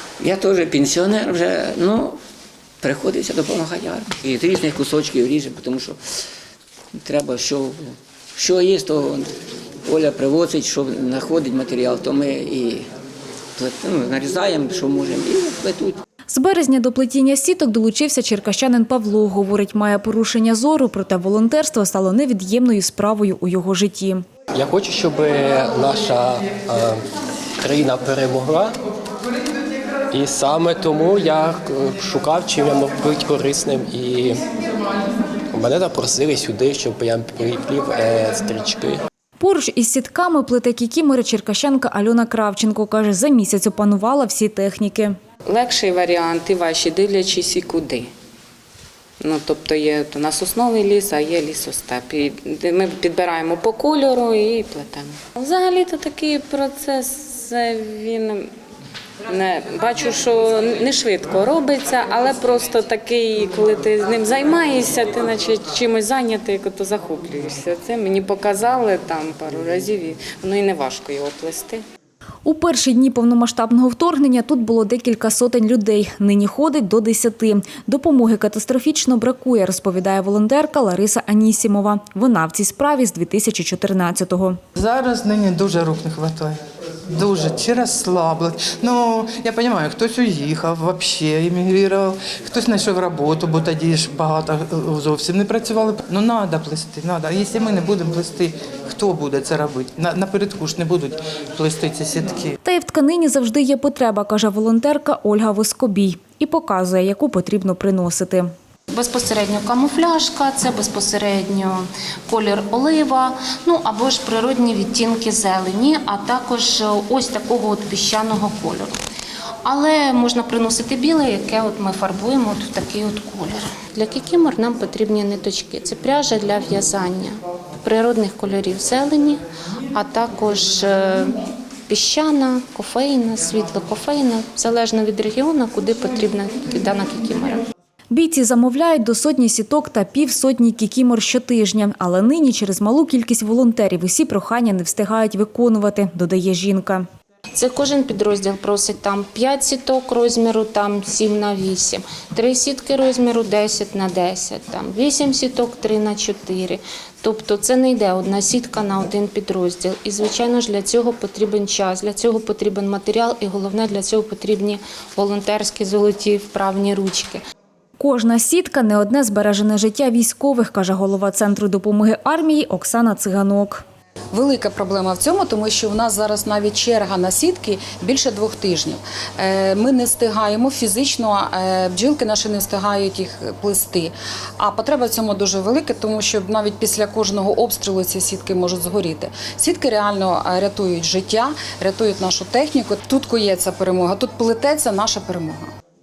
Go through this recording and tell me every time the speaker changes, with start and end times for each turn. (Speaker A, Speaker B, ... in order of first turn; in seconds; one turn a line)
Speaker A: 0.2-2.2
Speaker A: 2.8-6.0
Speaker A: 6.9-9.3
Speaker A: 9.8-12.9
Speaker A: 13.6-16.0
Speaker B: 16.3-24.2
Speaker C: 24.5-27.0
Speaker C: 27.6-28.7
Speaker C: 30.1-34.4
Speaker C: 35.5-39.0
Speaker B: 39.4-45.1
Speaker D: 45.5-48.1
Speaker D: 49.2-58.5
Speaker D: 59.3-71.8
Speaker B: 72.4-84.6
Speaker E: 84.8-86.6
Speaker E: 87.1-102.5
Speaker B: 102.6-108.5
Speaker F: 108.9-118.9
Speaker F: 119.6-137.6
Speaker B: 138.1-147.1
Speaker F: 147.6-167.4
Speaker B: 168.0-173.8
Speaker G: 174.3-195.7